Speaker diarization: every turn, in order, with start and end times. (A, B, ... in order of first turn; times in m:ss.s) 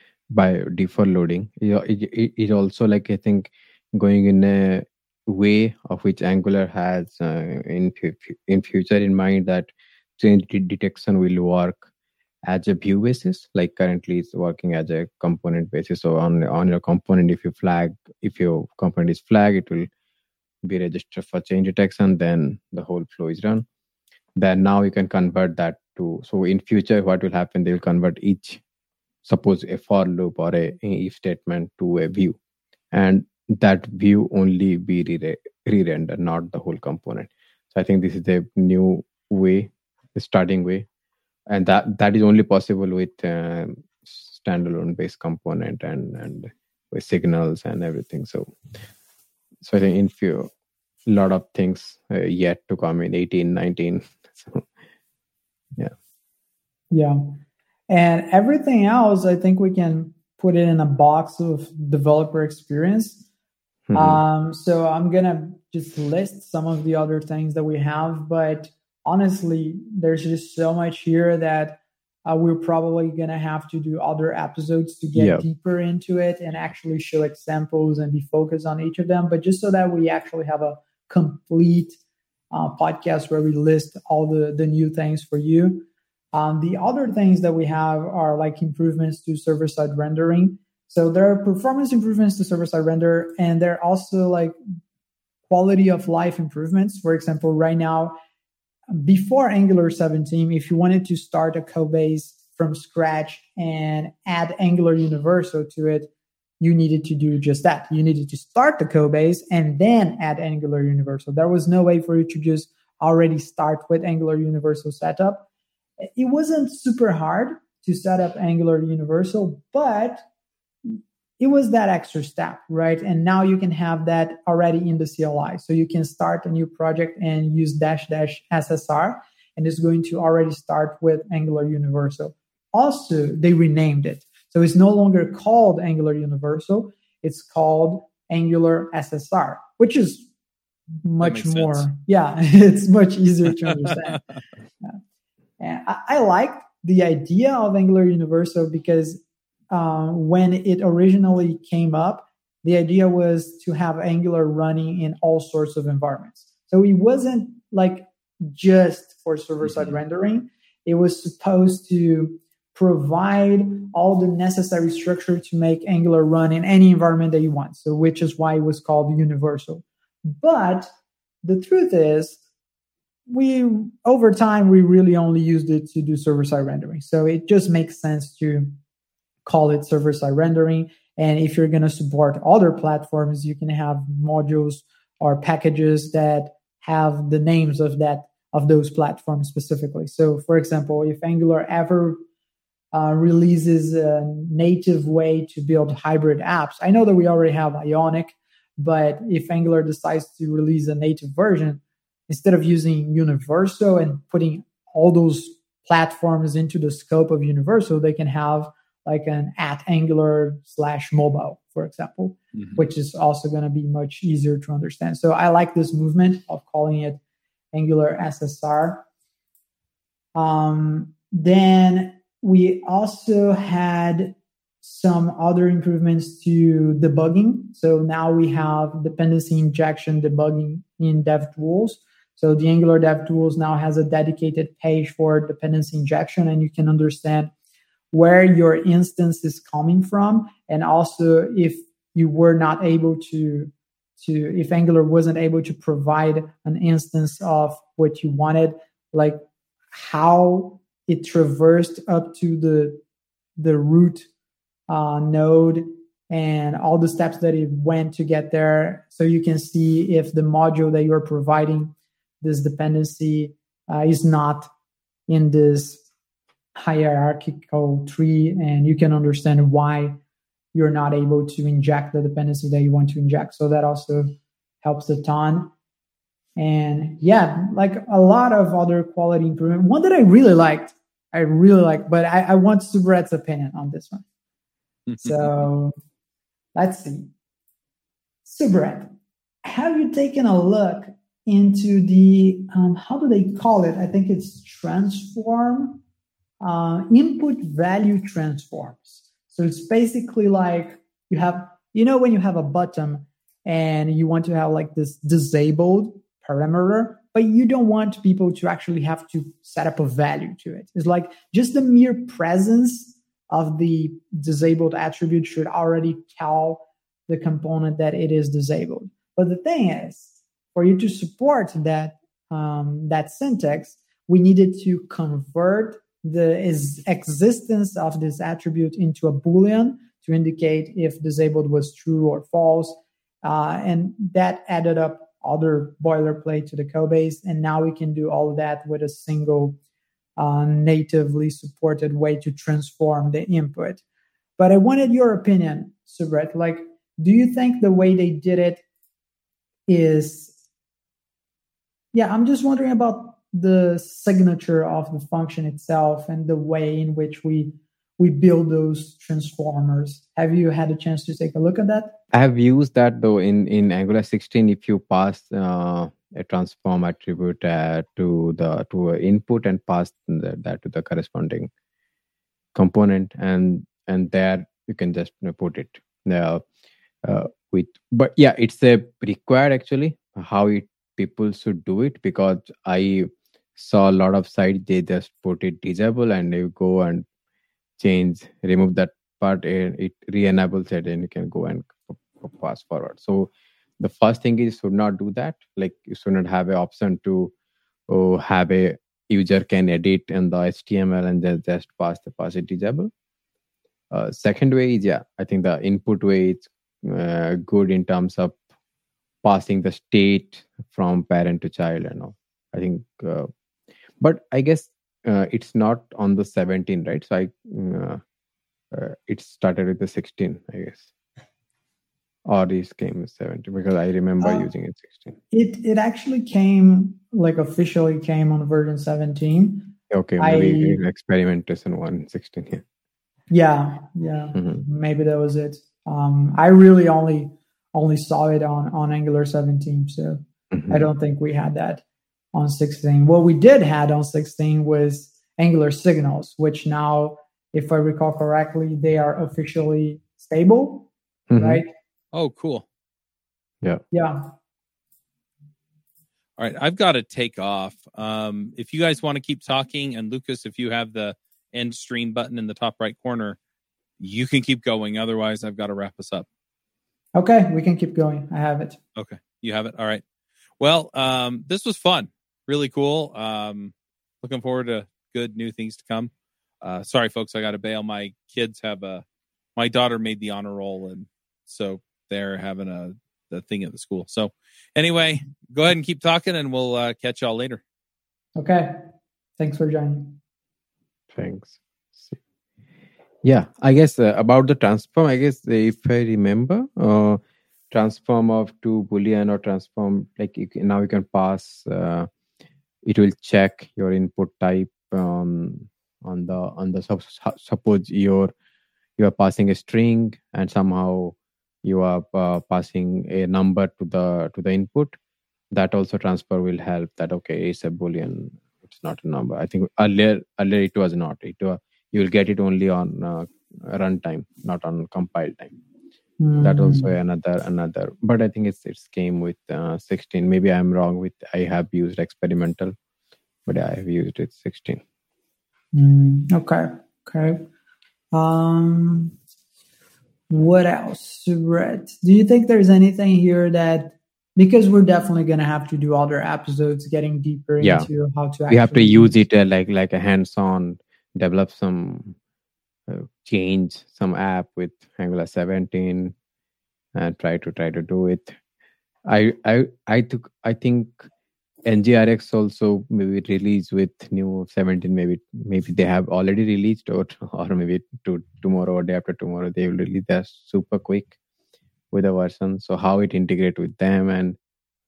0:00.3-0:11.9 A
0:12.5-0:19.9 A
0:20.6-0:23.7 A
0:24.4-0:28.6 A
0:29.2-0:32.4 A
0:32.9-0:40.9 A
0:41.5-0:48.5 A
0:49.6-0:50.5 A
0:51.1-0:54.7 A
0:56.9-0:57.4 B
0:57.9-1:03.3 B
1:03.9-1:04.2 A
1:03.9-1:22.0 B
1:15.2-1:15.4 A
1:22.5-1:34.6 B
1:35.5-1:38.2 B
1:38.9-1:55.5 B
1:56.2-2:00.2 B
2:00.9-2:20.3 B
2:21.0-2:24.2 B
2:21.2-2:21.9 C
2:25.6-2:50.9 B
2:39.6-2:39.9 C
2:51.4-2:52.4 B
2:53.3-2:58.7 B
2:59.4-3:12.2 B
3:12.9-3:37.2 B
3:37.7-3:39.0 B
3:40.4-3:57.5 B
3:58.1-4:09.4 B
4:09.9-4:13.0 B
4:13.6-4:14.3 B
4:14.9-4:24.7 B
4:25.3-4:26.0 B
4:26.8-4:30.2 B
4:30.7-4:35.7 B
4:36.6-4:44.2 B
4:45.1-4:45.5 C
4:45.2-4:45.9 B
4:46.8-4:47.3 B
4:48.4-4:49.1 B
4:49.6-4:56.0 B
4:56.6-5:39.8 B
5:40.4-5:44.0 B
5:44.6-5:48.8 B
5:49.9-5:50.6 B
5:52.1-6:02.2 B
6:02.3-6:11.7 A
6:12.8-6:16.6 A
6:17.2-6:27.3 A
6:28.0-6:37.5 A
6:38.1-6:43.1 A
6:44.1-6:48.6 A
6:49.4-6:53.5 A
6:54.2-6:58.2 A
6:58.9-7:01.1 A
7:02.5-7:05.4 A
7:04.4-7:04.7 B
7:05.5-7:11.0 B
7:10.1-7:12.8 A
7:13.5-7:22.0 B
7:14.6-7:14.8 A
7:20.7-7:21.1 A
7:22.5-7:31.9 B
7:31.5-7:31.8 A
7:32.3-7:32.8 C
7:34.1-7:34.5 B
7:36.6-7:43.6 C
7:44.2-7:46.5 C
7:47.4-7:49.0 B
7:49.2-7:50.2 C
7:50.8-7:59.2 C
7:59.8-8:07.8 C
8:08.6-8:09.0 B
8:09.6-8:10.4 B
8:11.3-8:12.4 A
8:13.4-8:22.3 A
8:23.0-8:28.5 A
8:29.2-8:35.2 A
8:35.7-8:45.8 A
8:46.4-8:47.2 B
8:46.6-8:53.0 A
8:53.7-8:55.0 A
8:55.9-8:57.6 B
8:58.3-8:59.4 B
9:00.5-9:09.3 B
9:07.8-9:08.1 A
9:08.7-9:12.4 A
9:13.1-9:16.4 A
9:17.2-9:18.6 A
9:19.3-9:21.3 A
9:21.8-9:31.4 A
9:32.1-9:34.6 A